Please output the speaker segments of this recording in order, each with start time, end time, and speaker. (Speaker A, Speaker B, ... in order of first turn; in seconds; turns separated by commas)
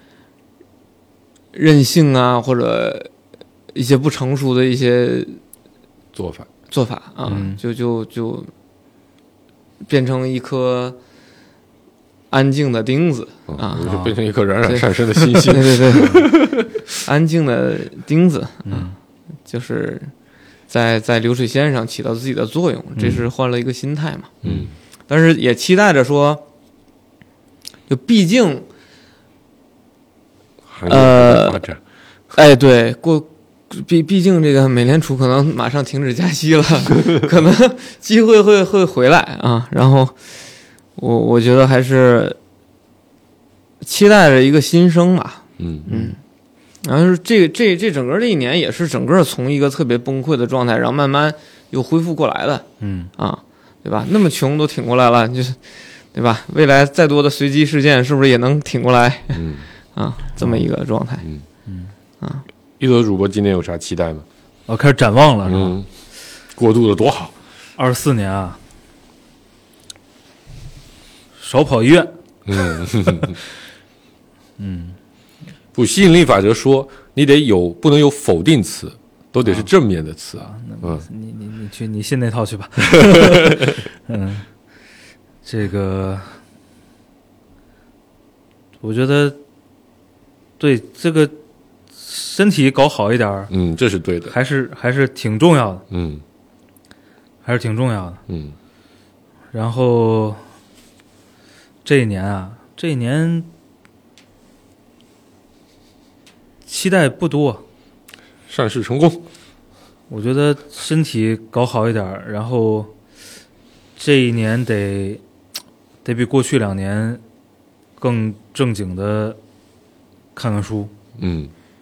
Speaker A: 1.5-3.1, Speaker A: 3.7-5.4, Speaker B: 6.1-6.5, Speaker A: 6.7-8.5, Speaker C: 7.3-7.6, Speaker A: 9.9-11.0, Speaker A: 12.3-13.9, Speaker B: 13.5-16.8, Speaker C: 13.8-14.2, Speaker A: 14.7-16.3, Speaker A: 17.0-18.9, Speaker C: 18.7-19.0, Speaker A: 19.5-20.1, Speaker A: 20.7-24.3, Speaker C: 24.4-24.7, Speaker B: 24.4-24.7, Speaker A: 25.1-26.4, Speaker A: 27.9-28.7, Speaker B: 30.7-31.8, Speaker A: 30.9-31.6, Speaker A: 32.3-40.2, Speaker A: 41.0-42.4, Speaker A: 43.8-46.2, Speaker B: 45.6-45.9, Speaker A: 46.8-52.7, Speaker C: 52.8-53.1, Speaker A: 53.2-55.6, Speaker A: 56.1-59.4, Speaker B: 59.4-59.7, Speaker A: 59.9-61.3, Speaker C: 61.7-61.9, Speaker B: 62.8-64.3, Speaker C: 64.7-65.8, Speaker B: 65.5-65.9, Speaker B: 66.5-67.3, Speaker C: 67.8-68.6, Speaker C: 71.4-72.1, Speaker B: 72.5-73.4, Speaker C: 74.6-75.0, Speaker B: 75.7-81.0, Speaker C: 80.5-84.5, Speaker B: 83.0-83.2, Speaker C: 85.5-86.4, Speaker C: 88.8-89.4, Speaker C: 90.6-91.3, Speaker C: 92.0-93.5, Speaker B: 93.5-94.3, Speaker C: 94.3-95.8, Speaker B: 95.9-96.2, Speaker C: 97.4-98.2, Speaker B: 98.3-98.6, Speaker C: 99.5-100.4, Speaker C: 101.8-103.5, Speaker C: 106.7-107.6, Speaker B: 108.5-109.3, Speaker C: 110.1-112.9, Speaker C: 114.0-115.2, Speaker C: 116.0-117.2, Speaker C: 118.0-119.4, Speaker C: 120.3-120.9, Speaker B: 121.2-121.5